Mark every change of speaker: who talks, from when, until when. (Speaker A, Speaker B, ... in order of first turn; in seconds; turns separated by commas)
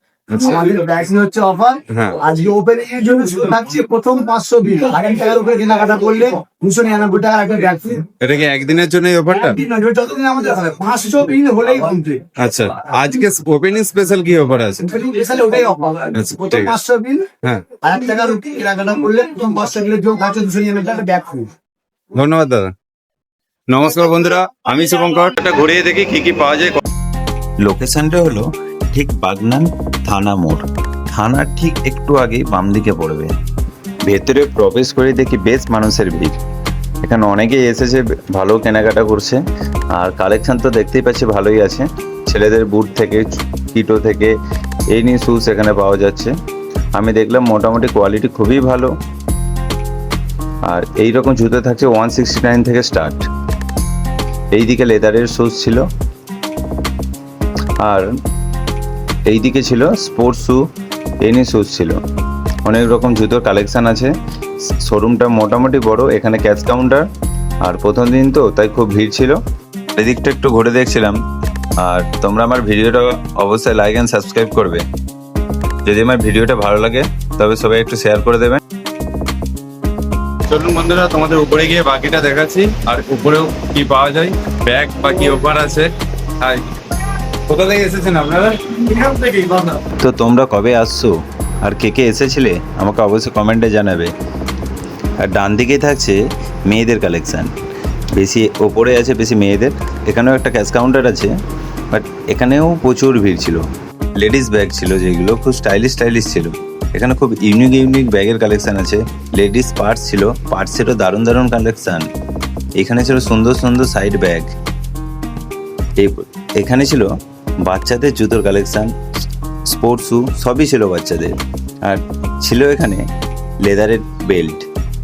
Speaker A: 0.3-8.1, Speaker B: 1.9-2.2, Speaker B: 8.2-9.6, Speaker A: 9.4-12.2, Speaker B: 12.4-14.9, Speaker A: 14.9-17.3, Speaker B: 16.1-16.7, Speaker A: 17.8-21.5, Speaker B: 22.1-22.7, Speaker B: 23.7-26.8, Speaker C: 27.6-33.3, Speaker C: 34.0-36.3, Speaker C: 37.0-39.4, Speaker C: 39.9-44.3, Speaker C: 44.9-46.3, Speaker C: 46.9-48.9, Speaker C: 50.7-53.3, Speaker C: 54.5-55.8, Speaker C: 57.8-58.1, Speaker C: 59.3-60.6, Speaker C: 61.2-62.0, Speaker C: 62.6-64.1, Speaker C: 64.8-67.0, Speaker C: 67.6-69.4, Speaker C: 70.0-71.2, Speaker C: 71.8-74.8, Speaker C: 75.8-78.6, Speaker B: 80.5-85.9, Speaker B: 87.5-89.8, Speaker C: 90.0-94.1, Speaker C: 95.2-97.5, Speaker C: 98.1-101.3, Speaker C: 101.9-112.1, Speaker C: 112.8-114.5, Speaker C: 116.0-117.1, Speaker C: 117.6-118.9, Speaker C: 119.7-123.0, Speaker C: 123.6-124.7